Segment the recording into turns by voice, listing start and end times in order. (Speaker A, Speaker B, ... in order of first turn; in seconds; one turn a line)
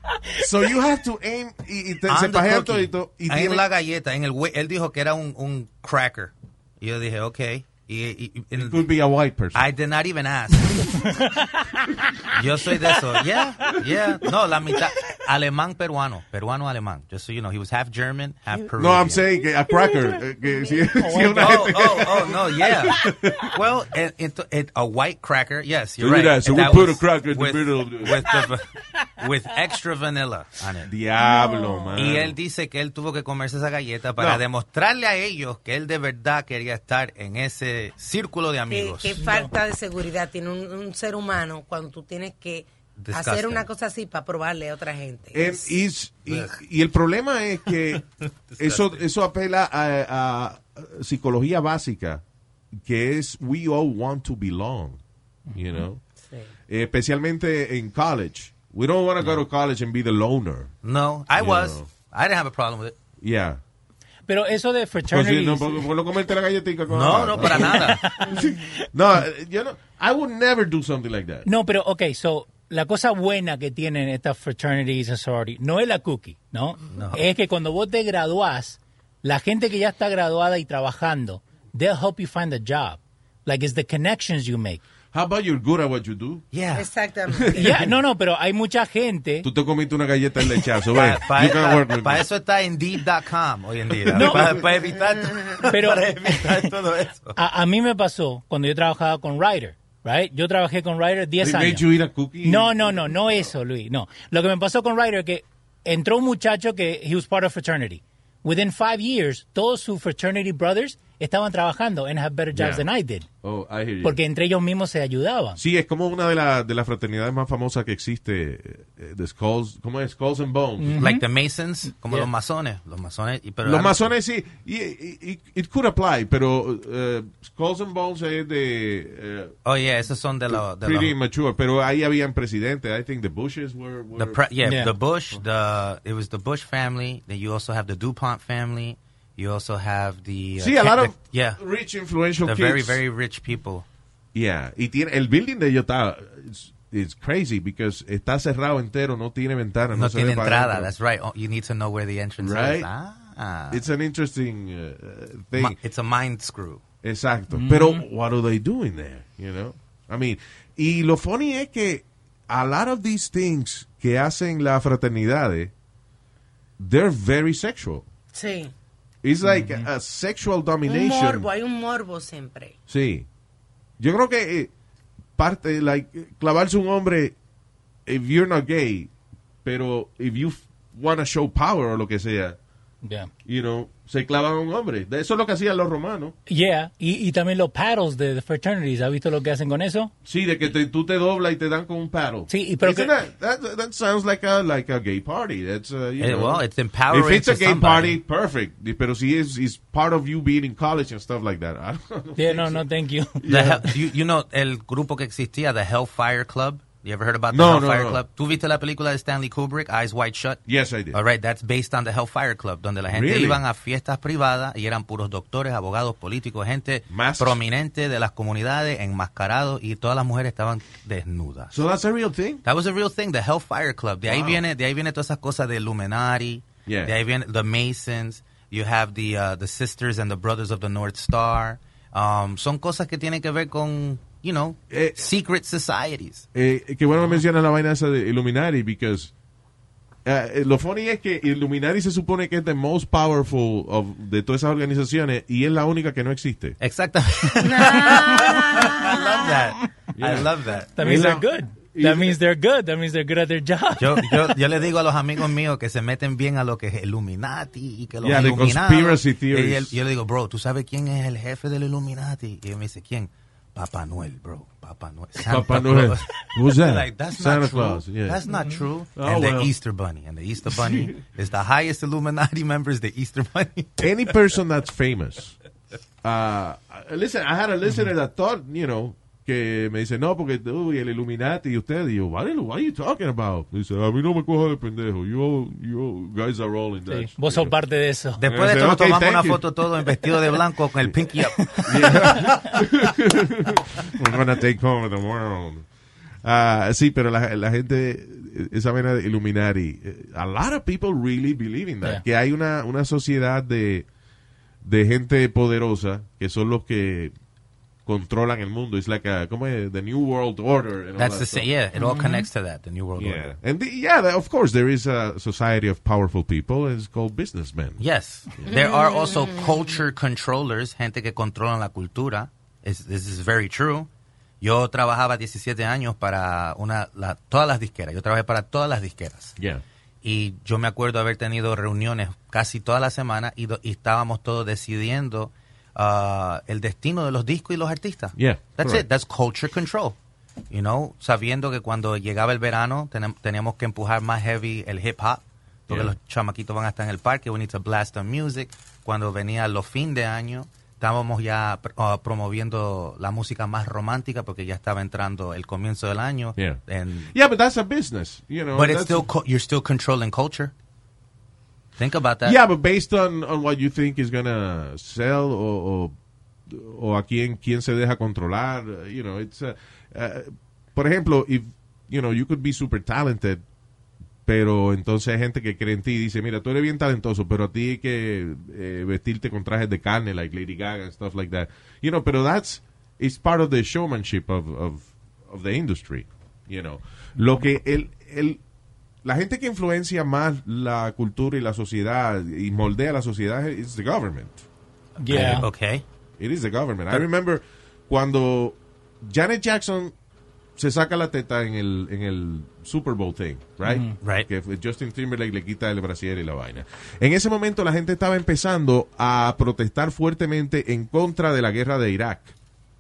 Speaker A: 0.4-3.7
Speaker B: 2.1-8.9
Speaker A: 8.6-9.7
Speaker B: 9.5-11.0
Speaker B: 12.3-19.2
Speaker A: 18.7-23.4
Speaker C: 21.0-21.6
Speaker B: 21.2-30.9
Speaker A: 26.0-28.3
Speaker A: 30.8-32.4
Speaker B: 32.0-39.2
Speaker A: 34.2-34.4
Speaker D: 38.7-45.7
Speaker C: 39.2-39.5
Speaker B: 43.0-43.7
Speaker A: 45.3-48.1
Speaker B: 48.6-49.0
Speaker A: 48.6-52.2
Speaker A: 52.8-55.0
Speaker C: 55.5-55.8
Speaker A: 55.5-56.0
Speaker D: 56.2-56.5
Speaker A: 56.7-60.7
Speaker B: 60.8-63.0
Speaker A: 61.4-61.9
Speaker A: 63.2-63.6
Speaker C: 64.3-65.8
Speaker A: 65.0-71.5
Speaker B: 66.9-68.1
Speaker C: 67.4-68.6
Speaker C: 71.5-84.8
Speaker B: 76.9-77.3
Speaker A: 85.1-86.5
Speaker B: 86.5-86.9
Speaker D: 86.8-87.8
Speaker A: 87.3-87.9
Speaker C: 87.6-89.5
Speaker A: 89.4-92.3
Speaker B: 90.9-97.4
Speaker A: 94.1-94.6
Speaker C: 94.1-94.7
Speaker C: 95.7-96.5
Speaker C: 97.4-101.9
Speaker A: 101.4-103.5
Speaker C: 102.4-113.3
Speaker A: 112.5-112.9
Speaker A: 113.4-114.2
Speaker C: 114.0-115.6
Speaker A: 115.6-121.0
Speaker C: 120.8-121.2
Speaker B: 121.0-124.1
Speaker A: 123.6-129.6
Speaker B: 129.7-131.1
Speaker A: 130.5-134.4
Speaker B: 134.2-141.6
Speaker C: 134.6-134.9
Speaker A: 140.6-143.0
Speaker B: 142.4-143.8
Speaker A: 144.3-150.9
Speaker B: 149.9-153.8
Speaker A: 152.4-152.9
Speaker A: 153.7-155.8
Speaker B: 155.6-156.8
Speaker A: 157.0-165.7
Speaker C: 157.5-158.0
Speaker A: 166.8-168.1
Speaker D: 168.3-168.7
Speaker A: 169.2-171.5
Speaker C: 169.4-169.9
Speaker D: 170.9-172.8
Speaker A: 172.9-173.3
Speaker A: 174.0-174.7
Speaker A: 175.4-177.3
Speaker A: 178.1-179.1
Speaker A: 179.7-182.6
Speaker C: 183.0-183.3
Speaker A: 183.4-186.3
Speaker C: 186.5-190.1
Speaker A: 190.2-202.8
Speaker C: 192.5-193.1
Speaker B: 196.2-198.2
Speaker C: 202.4-203.4
Speaker A: 203.4-204.0
Speaker B: 203.5-221.8
Speaker A: 207.5-208.2
Speaker A: 210.7-211.2
Speaker A: 213.1-213.6
Speaker A: 217.1-217.6
Speaker A: 221.7-222.6
Speaker B: 222.6-236.5
Speaker A: 224.3-224.6
Speaker A: 226.9-227.1
Speaker A: 234.9-235.2
Speaker A: 236.6-239.3
Speaker A: 240.2-246.8
Speaker B: 246.8-251.3
Speaker C: 247.8-249.2
Speaker D: 248.0-248.6
Speaker A: 250.2-252.4
Speaker C: 251.0-254.6
Speaker B: 254.0-274.4
Speaker A: 258.2-260.0
Speaker A: 265.4-268.4
Speaker C: 268.5-268.8
Speaker A: 269.2-269.7
Speaker A: 270.7-271.2
Speaker A: 274.0-275.6
Speaker A: 276.2-287.8
Speaker C: 287.1-288.4
Speaker B: 288.4-291.8
Speaker A: 288.5-289.6
Speaker A: 291.8-295.9
Speaker A: 296.4-304.1
Speaker A: 304.8-307.3
Speaker A: 308.1-311.7
Speaker B: 311.2-313.5
Speaker C: 312.0-312.5
Speaker A: 313.2-318.0
Speaker B: 318.0-324.1
Speaker D: 318.8-319.6
Speaker B: 324.6-329.6
Speaker B: 330.2-340.2
Speaker A: 338.4-339.1
Speaker B: 340.7-357.3
Speaker A: 345.9-346.1
Speaker A: 356.6-359.3
Speaker B: 358.7-360.7
Speaker B: 362.0-362.6
Speaker A: 362.4-366.1
Speaker A: 366.7-373.6
Speaker A: 374.5-388.6
Speaker A: 389.2-394.6
Speaker C: 395.2-395.7
Speaker B: 395.3-396.0
Speaker A: 396.4-400.1
Speaker A: 400.8-412.5
Speaker C: 403.9-404.1
Speaker B: 404.2-404.5